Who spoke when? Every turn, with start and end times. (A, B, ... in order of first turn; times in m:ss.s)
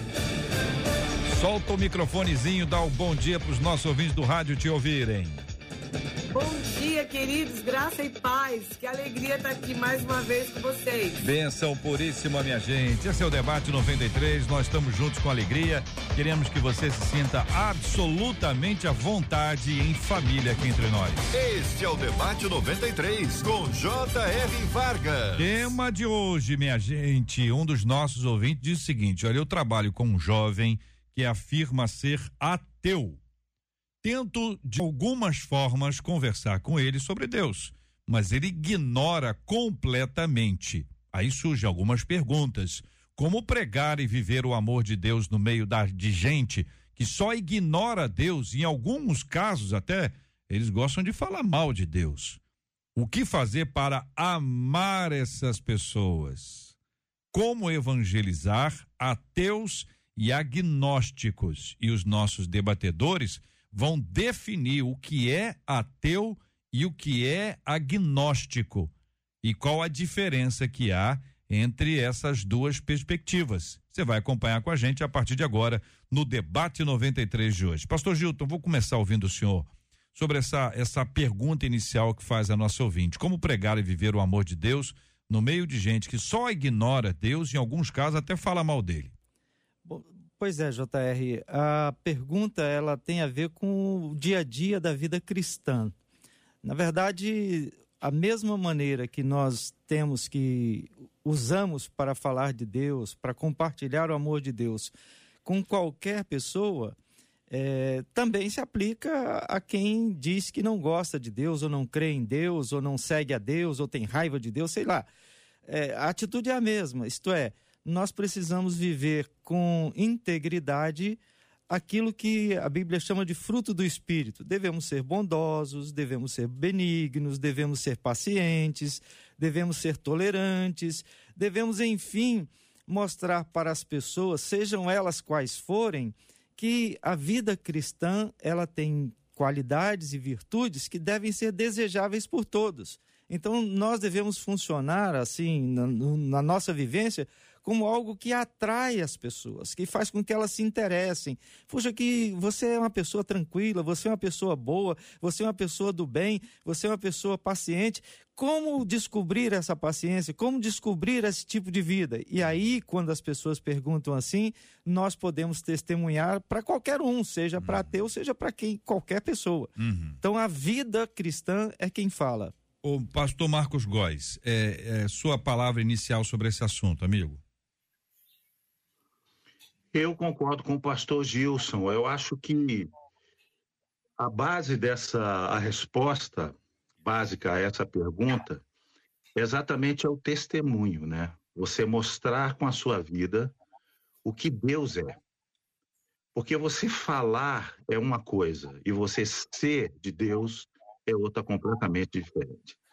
0:01.3-0:05.4 A
0:06.3-0:11.2 B
0:11.2-0:21.3 A
0:21.3-0:25.7 C
0:25.4-0:33.2 A
0:34.0-0:52.4 A
0:52.9-0:56.7 A
0:57.3-1:29.1 A
1:29.8-1:35.9 D
1:36.6-1:44.9 D
1:45.4-1:47.0 D
1:47.5-1:55.1 D
1:55.7-2:52.5 D
2:49.8-2:50.2 A
2:52.8-2:57.4 A
2:59.9-3:02.9 E
3:04.2-3:08.6 E
3:09.4-3:13.5 E
3:14.2-3:15.2 E
3:16.3-3:22.8 E